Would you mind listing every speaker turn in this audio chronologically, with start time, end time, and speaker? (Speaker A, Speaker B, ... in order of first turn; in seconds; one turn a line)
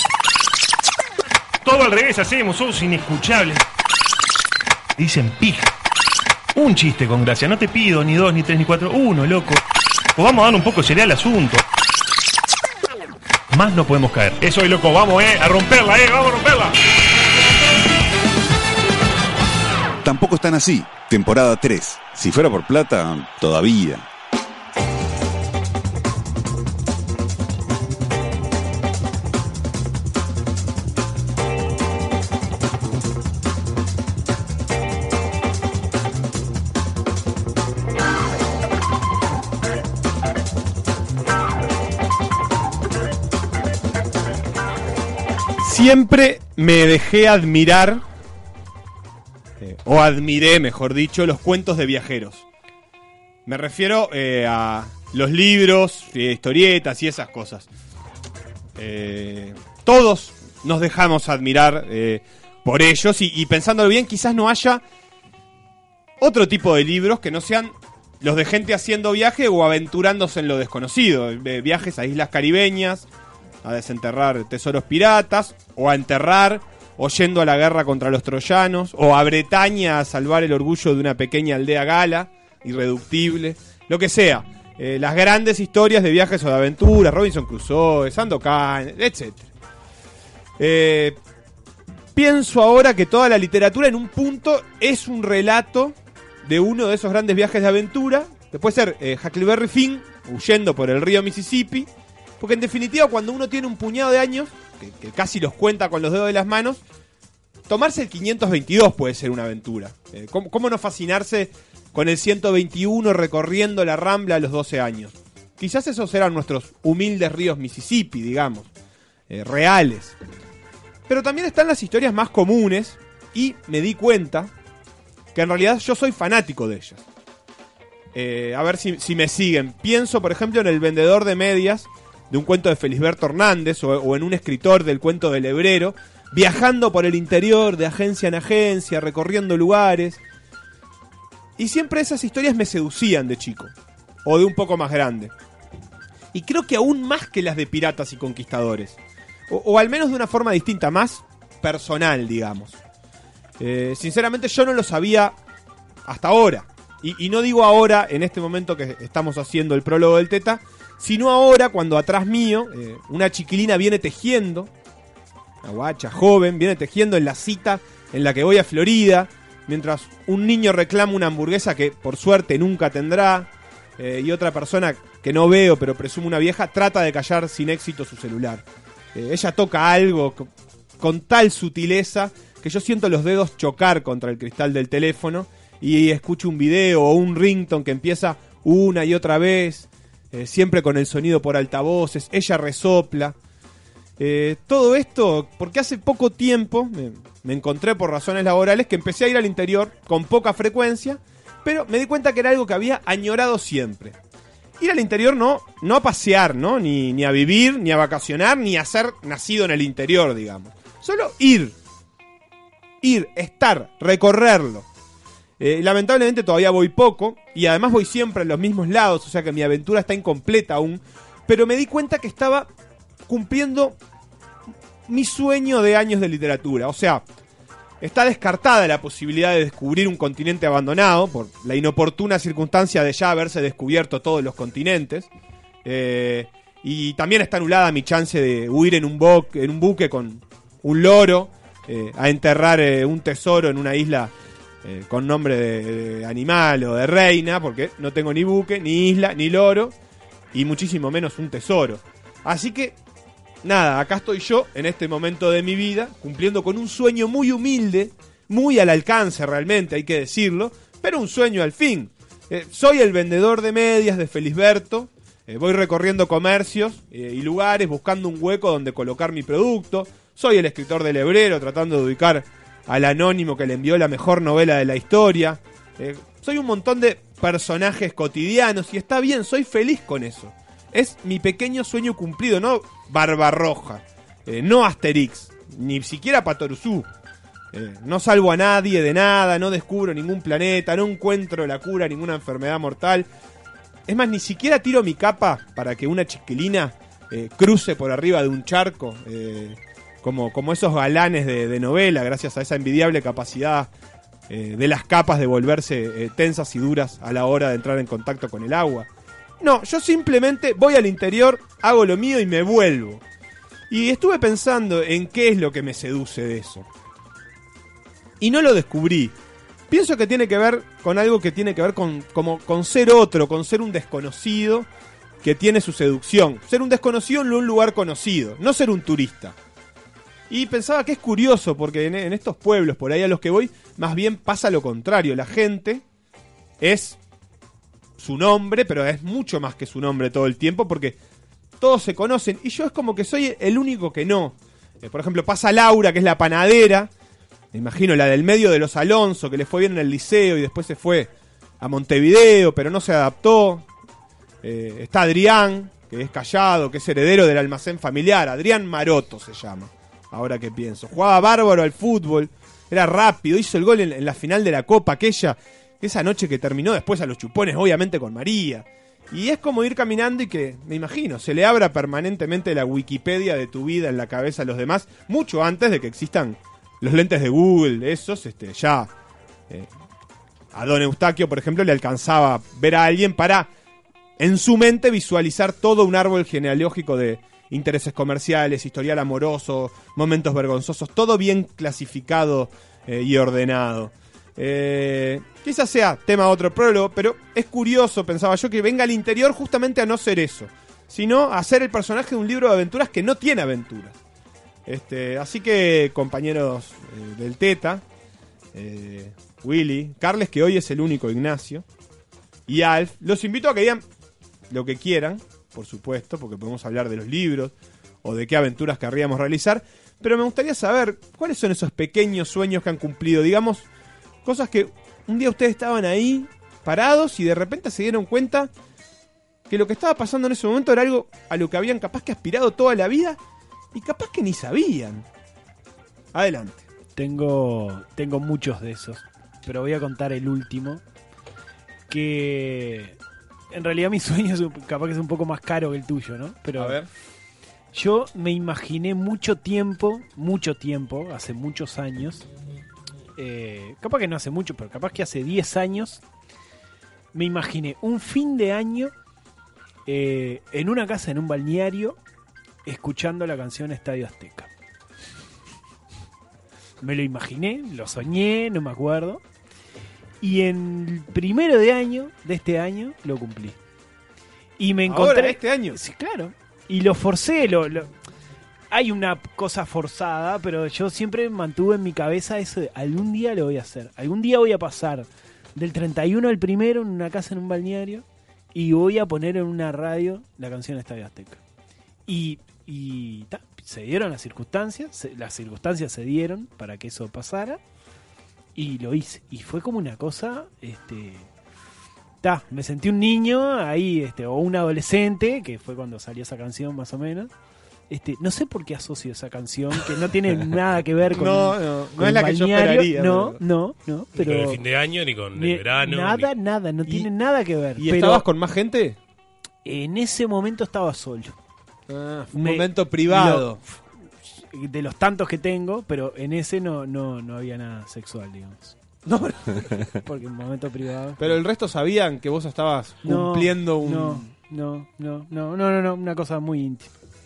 Speaker A: 1.6-3.7
Speaker A: 5.0-5.7
Speaker A: 6.5-9.6
Speaker A: 10.2-11.6
Speaker A: 13.5-16.8
Speaker B: 20.0-24.1
Speaker C: 45.6-48.0
Speaker C: 49.6-52.5
Speaker C: 53.5-57.7
Speaker C: 58.8-64.8
Speaker C: 66.2-73.1
Speaker C: 73.6-89.5
Speaker C: 90.6-91.2
Speaker C: 92.2-101.9
Speaker C: 102.4-106.8
Speaker C: 107.7-118.7
Speaker C: 119.3-120.2
Speaker C: 121.1-124.5
Speaker C: 125.3-127.0
Speaker C: 128.1-140.2
Speaker C: 141.6-143.7
Speaker C: 144.2-145.3
Speaker C: 146.3-149.0
Speaker C: 149.5-152.8
Speaker C: 153.6-155.4
Speaker C: 156.1-164.7
Speaker C: 165.6-180.5
Speaker C: 181.0-193.3
Speaker C: 194.2-204.2
Speaker C: 204.8-211.8
Speaker C: 213.0-214.9
Speaker C: 215.6-222.7
Speaker C: 223.3-224.0
Speaker C: 225.1-227.2
Speaker C: 228.0-235.3
Speaker C: 235.8-244.3
Speaker C: 244.8-249.9
Speaker C: 250.5-253.0
Speaker C: 253.6-287.1
Speaker C: 287.7-293.3
Speaker C: 294.1-303.9
Speaker C: 304.5-309.1
Speaker C: 309.6-313.2
Speaker C: 313.9-316.9
Speaker C: 318.4-319.4
Speaker C: 319.9-324.9
Speaker C: 325.4-329.6
Speaker C: 330.5-336.0
Speaker C: 336.8-337.2
Speaker C: 338.2-341.2
Speaker C: 341.8-347.1
Speaker C: 347.7-353.9
Speaker C: 354.6-379.1
Speaker C: 380.7-383.7
Speaker C: 384.4-404.2
Speaker C: 404.9-408.0
Speaker C: 408.7-411.8
Speaker C: 412.7-414.0
Speaker C: 414.7-423.9
Speaker C: 424.4-428.7
Speaker C: 429.7-433.4
Speaker C: 433.9-435.3
Speaker C: 436.3-436.8
Speaker D: 437.2-441.0
Speaker D: 442.1-443.2
Speaker D: 443.7-447.0
Speaker C: 446.8-447.1
Speaker D: 447.9-452.5
Speaker D: 453.4-456.2
Speaker D: 457.3-459.1
Speaker D: 460.1-462.2
Speaker D: 462.9-464.7
Speaker D: 467.0-469.4
Speaker D: 470.4-473.8
Speaker D: 474.8-478.1
Speaker C: 475.1-476.0
Speaker D: 478.9-491.6
Speaker D: 492.3-497.8
Speaker D: 498.8-501.5
Speaker D: 502.4-507.5
Speaker D: 508.1-514.8
Speaker C: 511.3-513.6
Speaker E: 514.4-516.5
Speaker D: 515.5-518.5
Speaker C: 518.0-519.2
Speaker D: 519.9-521.5
Speaker C: 522.1-523.8
Speaker D: 522.5-529.0
Speaker C: 529.3-529.8
Speaker D: 530.2-531.6
Speaker C: 531.4-534.5
Speaker D: 533.3-537.1